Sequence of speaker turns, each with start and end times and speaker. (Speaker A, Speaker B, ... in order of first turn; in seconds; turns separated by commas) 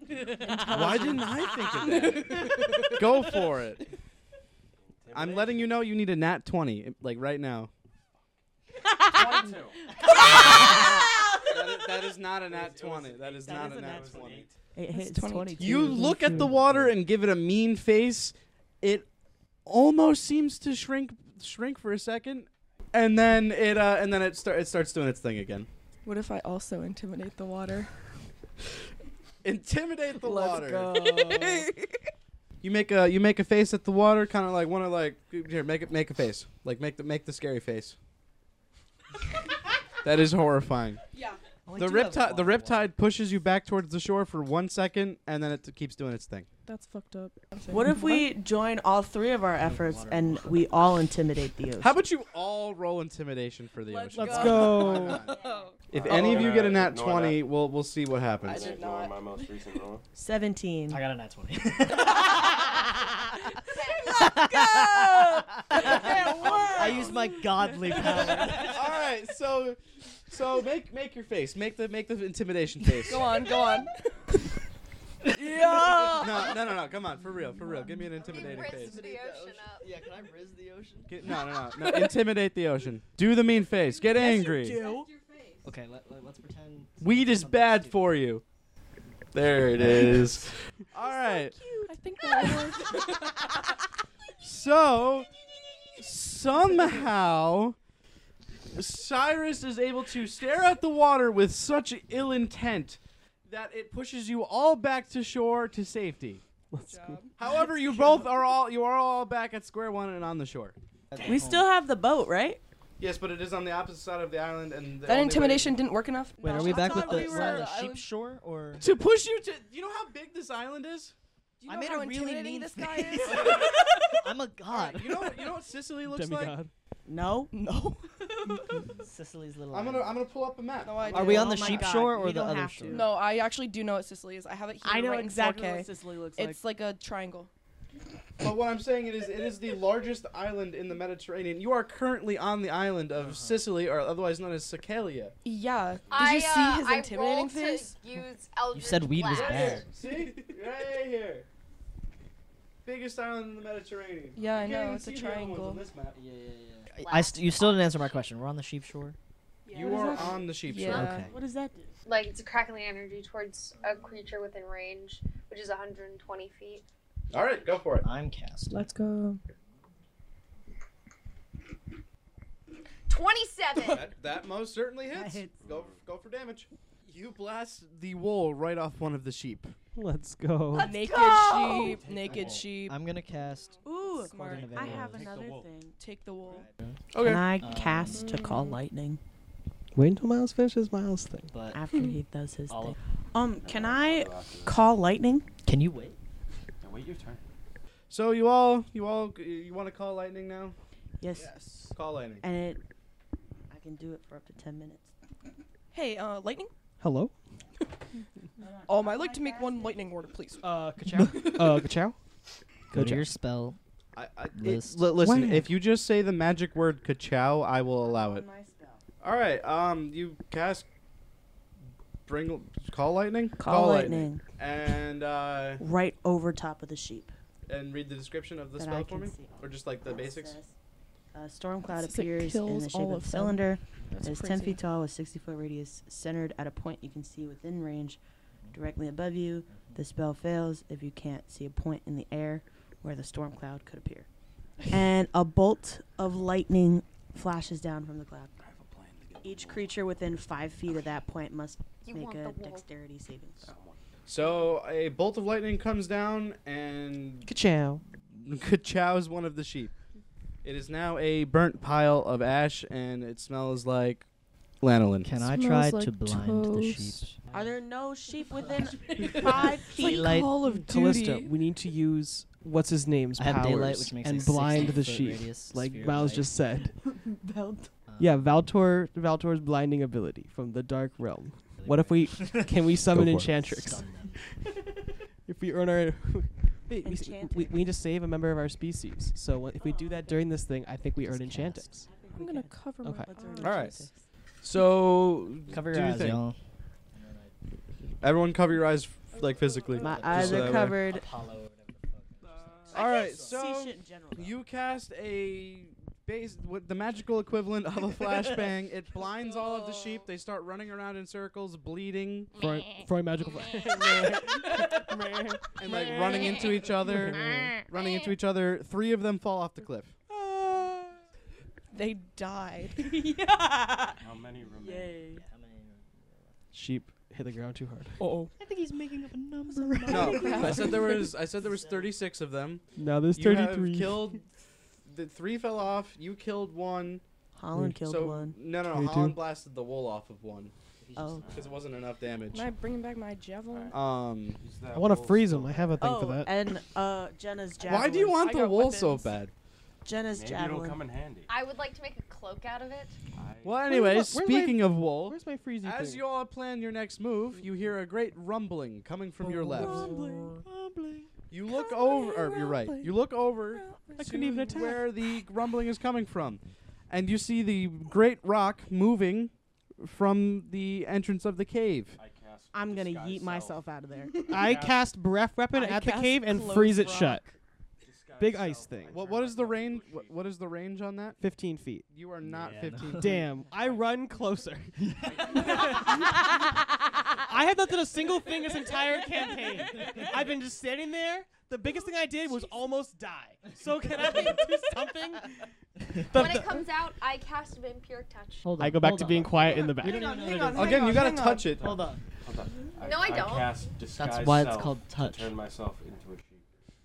Speaker A: 0.2-2.9, Speaker B: 0.3-1.1, Speaker C: 0.7-3.9, Speaker D: 4.8-5.8, Speaker C: 5.1-7.7, Speaker D: 9.1-9.8, Speaker B: 10.5-10.9, Speaker C: 11.5-14.5, Speaker D: 12.4-14.6, Speaker B: 13.4-14.2, Speaker B: 14.8-16.5, Speaker A: 14.9-16.0, Speaker C: 15.6-19.1, Speaker E: 16.2-16.9, Speaker C: 19.7-25.7, Speaker A: 26.1-27.9, Speaker C: 29.4-31.2, Speaker B: 30.2-31.8, Speaker A: 31.0-31.7, Speaker C: 32.6-38.0, Speaker C: 40.0-41.0, Speaker A: 41.1-41.4, Speaker E: 41.7-42.9, Speaker C: 41.8-46.5, Speaker A: 46.7-48.3, Speaker B: 47.7-52.0, Speaker E: 49.6-50.7, Speaker C: 51.8-58.7, Speaker A: 53.9-55.7, Speaker F: 54.1-55.2, Speaker G: 54.2-55.7, Speaker D: 55.9-57.5, Speaker A: 58.4-59.6, Speaker D: 58.5-60.0, Speaker B: 60.1-61.0, Speaker E: 60.9-62.6, Speaker A: 62.3-62.5, Speaker G: 63.7-64.4, Speaker A: 64.0-66.8, Speaker E: 64.4-66.2, Speaker C: 65.8-67.1, Speaker D: 66.4-67.2, Speaker E: 66.8-68.8, Speaker A: 67.5-68.8, Speaker C: 68.5-73.5, Speaker A: 73.1-74.5, Speaker A: 75.3-76.6, Speaker B: 75.6-76.2, Speaker C: 76.1-79.1, Speaker G: 78.1-79.9, Speaker E: 78.3-81.3, Speaker C: 81.1-84.8, Speaker A: 81.3-82.2, Speaker G: 84.0-85.7, Speaker A: 84.2-85.0, Speaker B: 84.2-85.1, Speaker E: 85.6-88.0, Speaker C: 87.0-88.4, Speaker C: 89.3-91.7, Speaker E: 89.6-90.5, Speaker A: 91.0-93.6, Speaker C: 94.4-95.3, Speaker C: 96.0-97.8, Speaker A: 96.6-97.0, Speaker C: 98.7-106.4, Speaker F: 106.7-107.2, Speaker A: 106.9-108.2, Speaker C: 107.4-110.8, Speaker E: 111.1-111.7, Speaker B: 111.2-112.6, Speaker C: 113.0-115.8, Speaker A: 115.0-118.1, Speaker E: 116.4-118.9, Speaker B: 116.8-117.5, Speaker C: 116.8-117.6, Speaker C: 118.8-121.1, Speaker A: 121.6-124.3, Speaker E: 121.7-125.5, Speaker C: 123.3-123.7, Speaker C: 124.7-126.6, Speaker F: 126.0-126.7, Speaker B: 127.1-127.5, Speaker A: 127.5-128.9, Speaker E: 128.9-130.3, Speaker C: 129.7-131.7, Speaker A: 130.8-131.9, Speaker E: 131.1-133.1, Speaker B: 131.2-133.2, Speaker A: 132.9-137.5, Speaker B: 134.8-136.6, Speaker C: 138.4-145.3, Speaker E: 143.2-143.7, Speaker A: 145.4-148.0, Speaker G: 146.1-149.9, Speaker E: 148.7-149.9, Speaker C: 149.3-151.5, Speaker C: 152.8-156.2, Speaker A: 154.3-155.8, Speaker E: 156.1-159.2, Speaker G: 157.0-158.2, Speaker A: 159.7-161.3, Speaker C: 159.7-161.1, Speaker E: 160.9-161.3, Speaker B: 161.3-161.9, Speaker G: 162.1-166.8, Speaker C: 167.3-168.1, Speaker E: 168.0-168.8, Speaker A: 168.7-169.4, Speaker G: 173.1-174.1, Speaker C: 173.9-179.8, Speaker B: 175.1-175.6, Speaker D: 175.6-176.0, Speaker F: 179.9-180.9, Speaker A: 180.8-183.0, Speaker G: 180.9-182.0, Speaker B: 181.0-182.0, Speaker D: 181.8-182.7, Speaker E: 182.3-185.3, Speaker B: 183.8-185.9, Speaker A: 183.9-185.1, Speaker D: 184.8-185.7, Speaker A: 186.0-186.7, Speaker E: 186.5-187.0, Speaker C: 187.1-187.4, Speaker B: 187.2-189.2, Speaker E: 187.6-188.3, Speaker A: 188.1-188.8, Speaker F: 189.9-191.5, Speaker E: 191.5-191.8, Speaker B: 191.7-195.5, Speaker A: 191.9-192.2, Speaker E: 192.7-193.0, Speaker D: 193.6-194.8, Speaker E: 195.7-196.2, Speaker D: 196.8-197.4, Speaker C: 198.1-200.8, Speaker B: 201.2-201.5, Speaker C: 201.9-202.4, Speaker B: 202.4-202.8, Speaker B: 203.7-205.1, Speaker A: 205.9-206.7, Speaker F: 207.0-207.3, Speaker B: 208.6-210.0, Speaker A: 208.6-210.8, Speaker F: 210.6-212.2, Speaker E: 211.0-211.6, Speaker A: 211.3-211.8, Speaker F: 212.9-213.3, Speaker E: 212.9-213.8, Speaker C: 214.2-218.5, Speaker E: 214.5-215.1, Speaker F: 215.2-215.8, Speaker B: 218.0-219.0, Speaker C: 219.2-220.9, Speaker C: 222.3-225.8, Speaker B: 223.6-224.4, Speaker B: 225.8-227.3, Speaker C: 227.7-230.6, Speaker B: 228.8-230.7, Speaker B: 231.3-238.2, Speaker A: 231.9-234.8, Speaker B: 238.7-244.3, Speaker B: 244.9-248.5, Speaker D: 248.6-249.9, Speaker B: 249.4-253.7, Speaker G: 252.0-252.9, Speaker D: 253.6-254.0, Speaker C: 254.3-257.5, Speaker F: 257.5-258.0, Speaker C: 258.3-259.9, Speaker C: 260.6-264.3, Speaker C: 264.8-265.4, Speaker E: 265.2-267.3, Speaker A: 265.4-267.1, Speaker B: 267.5-270.3, Speaker A: 269.2-271.6, Speaker E: 270.0-270.6, Speaker F: 270.7-276.9, Speaker E: 273.4-276.5, Speaker B: 277.2-277.9, Speaker E: 278.1-278.5, Speaker F: 278.2-284.2, Speaker E: 281.8-284.4, Speaker F: 285.5-292.1, Speaker B: 287.0-287.8, Speaker B: 289.8-290.5, Speaker E: 291.2-291.9, Speaker B: 292.0-294.1, Speaker A: 292.3-294.1, Speaker F: 293.0-293.3, Speaker C: 293.6-294.0, Speaker C: 294.6-296.4, Speaker E: 295.7-296.6, Speaker E: 297.1-297.5, Speaker C: 298.2-301.0, Speaker A: 299.3-300.3, Speaker B: 300.0-301.3, Speaker E: 300.0-303.6, Speaker B: 302.9-304.6, Speaker C: 302.9-312.5, Speaker F: 312.6-317.8, Speaker A: 314.7-315.0, Speaker C: 315.8-320.2, Speaker A: 316.3-316.7, Speaker A: 321.9-324.1, Speaker D: 324.2-325.2, Speaker B: 324.8-325.4, Speaker E: 325.3-326.6, Speaker F: 326.7-328.5, Speaker E: 328.6-332.1, Speaker A: 330.0-331.4, Speaker C: 330.1-334.5, Speaker F: 333.0-334.4, Speaker C: 335.1-337.2, Speaker B: 337.6-338.6, Speaker C: 338.0-340.7, Speaker F: 338.9-339.4, Speaker E: 341.0-341.8, Speaker B: 341.1-341.5, Speaker D: 341.4-341.7, Speaker C: 341.5-342.7, Speaker A: 342.5-344.0, Speaker C: 343.9-344.6, Speaker D: 344.6-346.0, Speaker F: 344.9-346.5, Speaker B: 346.0-348.4, Speaker C: 347.8-349.5, Speaker A: 348.1-349.4, Speaker B: 350.1-351.0, Speaker D: 350.3-351.5, Speaker G: 351.5-353.2, Speaker D: 353.4-353.8, Speaker C: 353.6-360.1, Speaker F: 353.9-356.2, Speaker F: 359.6-360.6, Speaker E: 359.8-361.3, Speaker C: 361.5-372.2, Speaker A: 361.7-363.1, Speaker A: 363.7-364.2, Speaker F: 364.2-365.1, Speaker D: 372.2-375.1, Speaker B: 372.7-374.4, Speaker F: 374.5-377.4, Speaker A: 375.7-377.5, Speaker D: 378.0-380.4, Speaker F: 378.4-379.2, Speaker C: 379.1-381.4, Speaker F: 381.4-382.1, Speaker C: 382.1-383.5, Speaker E: 382.4-383.5, Speaker D: 382.5-382.9, Speaker F: 383.2-386.5, Speaker D: 383.7-384.1, Speaker E: 385.0-385.9, Speaker D: 385.2-386.4, Speaker F: 387.4-395.7, Speaker G: 396.3-398.8, Speaker F: 396.3-396.9, Speaker E: 398.6-401.2, Speaker F: 398.8-400.3, Speaker A: 400.1-401.8, Speaker C: 400.6-402.0, Speaker D: 401.8-406.6, Speaker E: 401.8-402.2, Speaker G: 403.0-403.8, Speaker E: 404.1-405.5